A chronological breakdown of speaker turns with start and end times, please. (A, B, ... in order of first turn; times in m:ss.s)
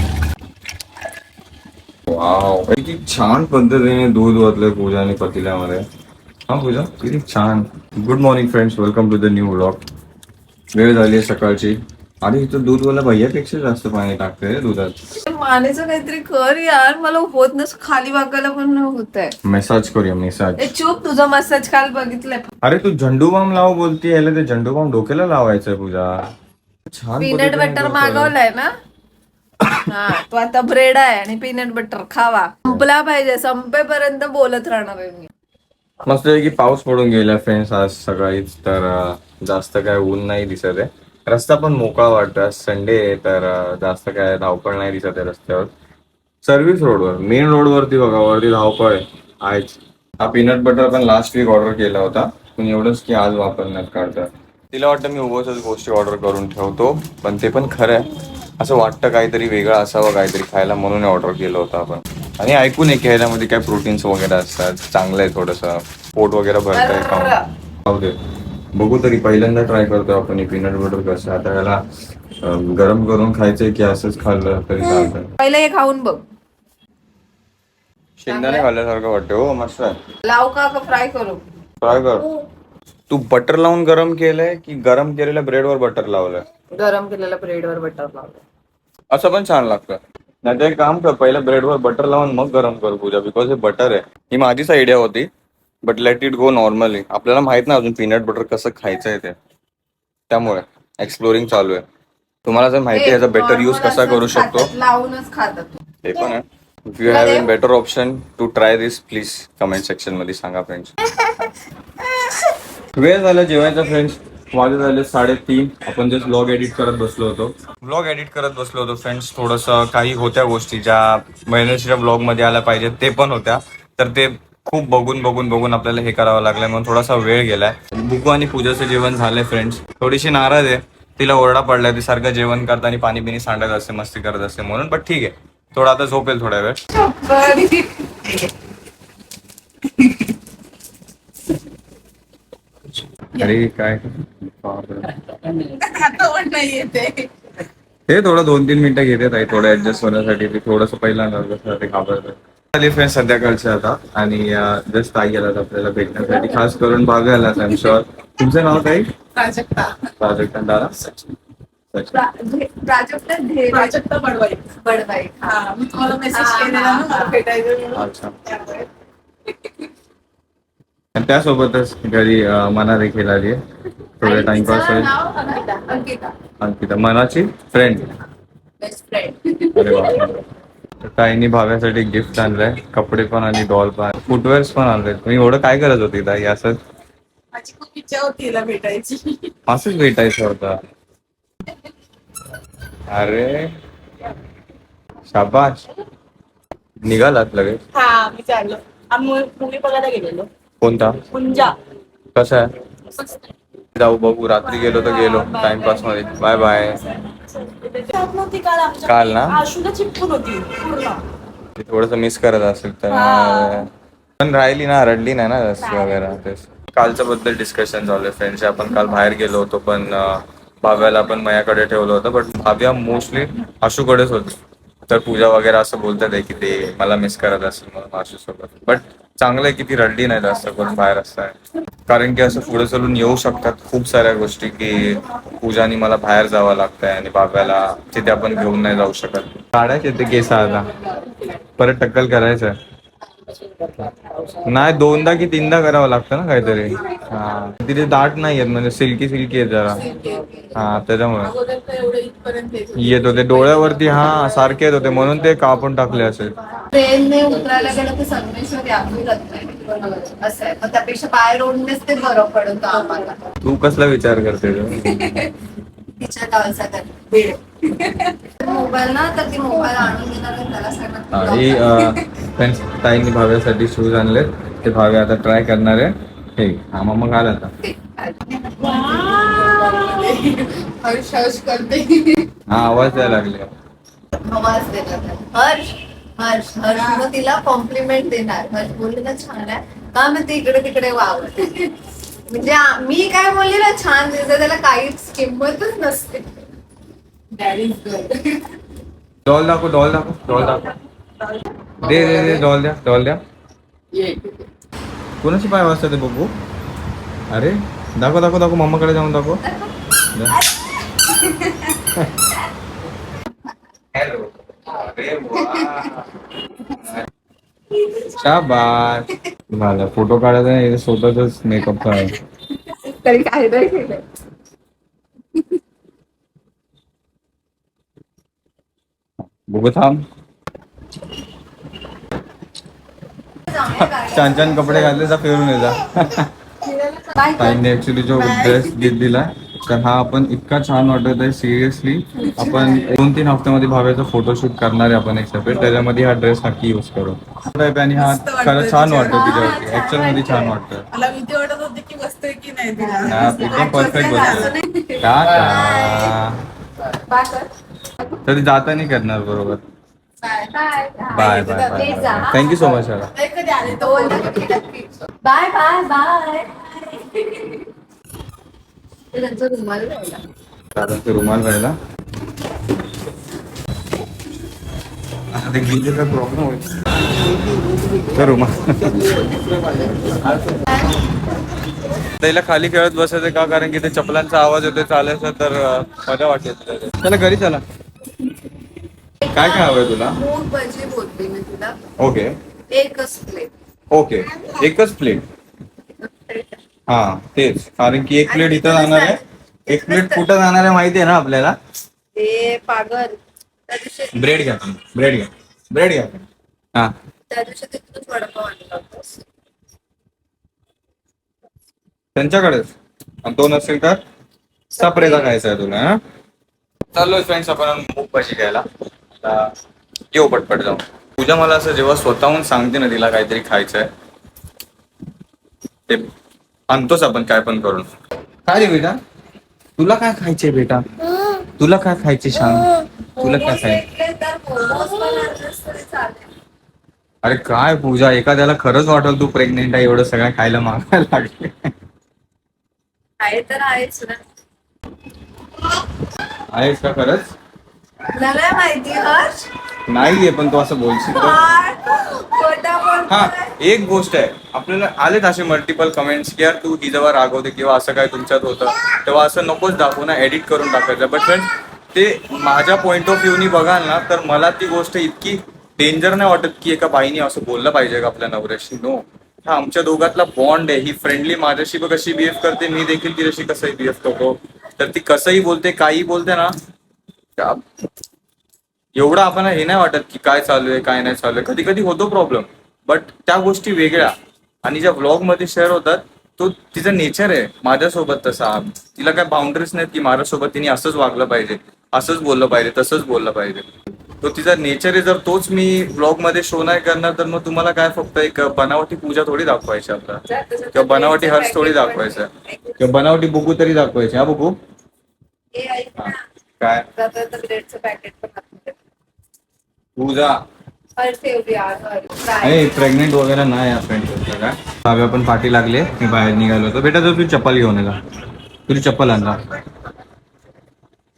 0:02.1-0:05.8 A
0:06.5-0:09.8 A
0:10.7-0:15.0 A
0:15.2-0:19.4 B
0:19.4-0:20.7 A
0:20.6-0:22.4 B
0:22.6-0:26.2 A
0:26.9-0:28.3 A
0:27.2-0:28.7 B
0:29.8-0:35.3 B
0:36.0-0:45.7 A
0:46.4-1:08.2 A
1:06.7-1:07.4 B
1:08.7-1:11.8 A
1:12.4-1:15.3 A
1:14.8-1:16.2 B
1:18.2-1:20.0 A
1:18.3-1:18.7 B
1:20.2-1:21.4 B
1:21.8-1:22.3 A
1:23.1-1:26.4 A
1:26.7-1:28.4 B
1:29.1-1:35.3 A
1:35.8-1:39.4 A
1:40.3-1:41.8 A
1:42.4-1:44.7 A
1:42.9-1:45.7 B
1:46.0-1:50.9 A
1:47.0-1:47.5 B
1:51.2-1:51.5 B
1:52.1-1:52.5 B
1:52.9-2:16.8 A
2:16.9-2:18.5 B
2:23.3-2:25.2 A
2:25.4-2:27.3 C
2:28.1-2:39.1 A
2:39.3-2:40.1 C
2:40.2-2:41.0 A
2:42.1-2:44.0 B
2:43.7-2:44.6 C
2:44.8-2:45.6 B
2:45.4-2:47.8 C
2:46.2-2:48.0 B
2:47.9-2:48.3 A
2:51.1-2:53.6 A
2:54.2-2:55.1 A
2:54.2-2:56.3 B
2:56.6-2:58.1 A
2:58.8-3:00.4 B
2:59.7-3:00.4 A
3:01.0-3:06.8 A
3:07.5-3:09.5 C
3:09.7-3:10.8 A
3:13.1-3:13.7 A
3:15.3-3:15.8 A
3:17.0-3:17.8 A
3:17.9-3:20.5 C
3:20.8-3:21.2 A
3:21.3-3:21.8 C
3:22.3-3:22.7 A
3:23.9-3:27.0 A
3:24.9-3:26.5 C
3:27.1-3:31.2 C
3:29.0-3:29.6 A
3:31.8-4:00.9 A
3:33.1-3:33.9 C
4:01.0-4:01.5 C
4:01.8-4:02.8 A
4:03.7-4:04.6 C
4:04.6-4:10.0 A
4:10.0-4:10.5 C
4:10.7-4:11.6 A
4:11.4-4:14.5 C
4:12.9-4:16.6 A
4:16.9-4:23.4 B
4:23.6-4:25.2 A
4:24.9-4:25.6 B
4:26.2-4:32.2 B
4:31.3-4:37.7 A
4:37.8-4:40.5 B
4:38.7-4:42.2 C
4:41.2-4:41.6 B
4:42.7-4:43.7 A
4:44.4-4:51.9 B
4:52.5-4:56.5 B
4:57.6-4:58.6 C
4:59.4-5:00.9 A
5:02.0-5:03.4 A
5:02.0-5:02.3 C
5:04.1-5:04.6 C
5:05.4-5:06.5 A
5:07.5-5:09.6 A
5:10.2-5:10.6 A
5:10.8-5:12.1 B
5:14.1-5:16.3 A
5:15.5-5:16.1 B
5:17.0-5:17.2 A
5:18.3-5:22.3 A
5:22.0-5:24.2 B
5:29.7-5:30.2 A
5:33.6-5:35.3 B
5:34.2-5:36.5 A
5:36.8-5:37.8 B
5:37.5-5:51.0 A
5:38.4-5:39.1 B
5:42.4-5:43.1 B
5:48.3-5:50.8 B
5:48.4-5:49.5 C
5:51.1-5:54.7 C
5:53.0-5:56.4 B
5:53.3-5:56.6 A
5:57.1-5:57.7 B
5:58.4-5:59.8 A
6:00.4-6:02.9 B
6:01.3-6:03.3 A
6:03.3-6:04.6 C
6:03.9-6:07.9 B
6:09.3-6:10.4 B
6:10.9-6:12.0 A
6:15.5-6:17.3 A
6:18.2-6:20.9 A
6:22.4-6:27.8 A
6:29.5-6:30.4 A
6:30.4-6:32.0 B
6:32.2-6:32.6 A
6:32.9-6:33.7 B
6:34.1-6:35.4 A
6:36.2-6:36.8 B
6:37.1-6:41.8 A
6:38.4-6:40.4 B
6:42.3-6:44.4 B
6:44.3-6:46.4 A
6:47.5-6:49.4 B
6:52.3-6:52.9 A
6:53.4-6:54.2 A
6:54.9-6:56.2 A
6:55.0-6:55.5 B
6:57.1-6:58.9 A
6:59.4-6:59.7 A
7:00.3-7:04.1 A
7:06.9-7:08.1 A
7:08.6-7:09.2 A
7:10.0-7:11.0 A
7:11.8-7:14.0 A
7:13.4-7:16.5 B
7:17.4-7:21.7 A
7:23.4-7:24.4 B
7:26.7-7:27.5 A
7:28.3-7:29.7 B
7:30.1-7:31.6 A
7:31.3-7:33.7 B
7:33.3-7:56.7 A
7:59.2-8:13.8 A
8:14.4-8:20.4 A
8:20.5-8:23.0 B
8:20.9-8:24.8 A
8:25.7-8:26.4 B
8:26.2-8:27.1 A
8:27.2-8:28.9 B
8:30.2-8:30.6 A
8:31.2-8:33.1 B
8:32.6-8:38.2 A
8:38.9-8:39.7 A